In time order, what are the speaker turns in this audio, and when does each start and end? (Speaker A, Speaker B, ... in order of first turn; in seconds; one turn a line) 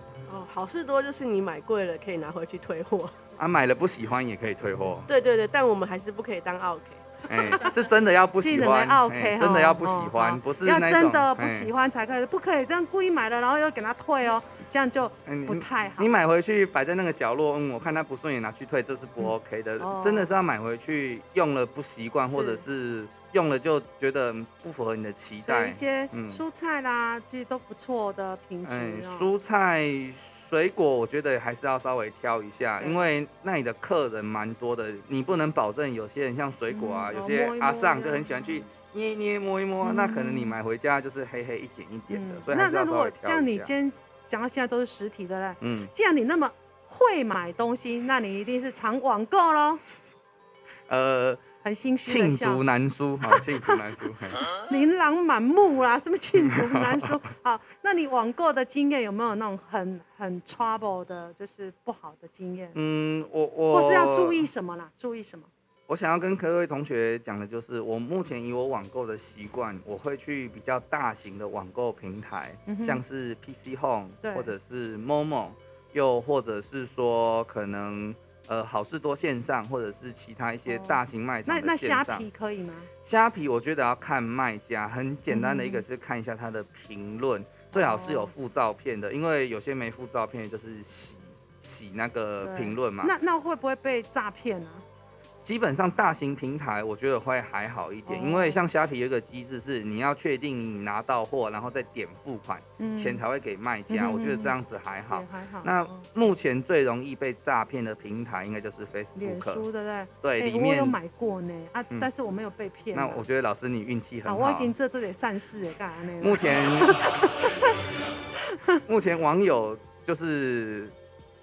Speaker A: 0.3-3.1
Speaker B: 3.4-5.1
Speaker A: 5.1-7.0
Speaker B: 7.3-11.7
Speaker C: 8.4-16.1
Speaker B: 15.2-26.4
Speaker C: 19.2-20.3
Speaker C: 22.2-22.6
Speaker C: 25.4-29.3
Speaker B: 28.6-43.7
Speaker C: 36.7-38.6
Speaker C: 39.8-40.6
Speaker C: 42.1-49.8
Speaker B: 45.6-45.9
Speaker B: 50.9-51.4
Speaker C: 51.6-52.6
Speaker B: 52.0-54.5
Speaker C: 53.2-53.8
Speaker C: 54.5-62.8
Speaker B: 56.4-57.1
Speaker B: 62.7-64.4
Speaker C: 63.7-65.5
Speaker B: 65.9-82.2
Speaker C: 72.7-73.0
Speaker C: 74.2-74.5
Speaker C: 80.7-82.9
Speaker B: 83.0-93.1
Speaker C: 85.3-85.8
Speaker C: 87.7-88.3
Speaker C: 92.4-94.8
Speaker B: 95.4-109.6
Speaker C: 98.0-98.6
Speaker C: 102.8-103.2
Speaker C: 103.9-104.5
Speaker C: 105.1-106.0
Speaker C: 109.2-113.2
Speaker B: 110.2-111.0
Speaker B: 112.9-114.7
Speaker C: 114.2-117.5
Speaker B: 116.2-117.1
Speaker B: 118.9-120.9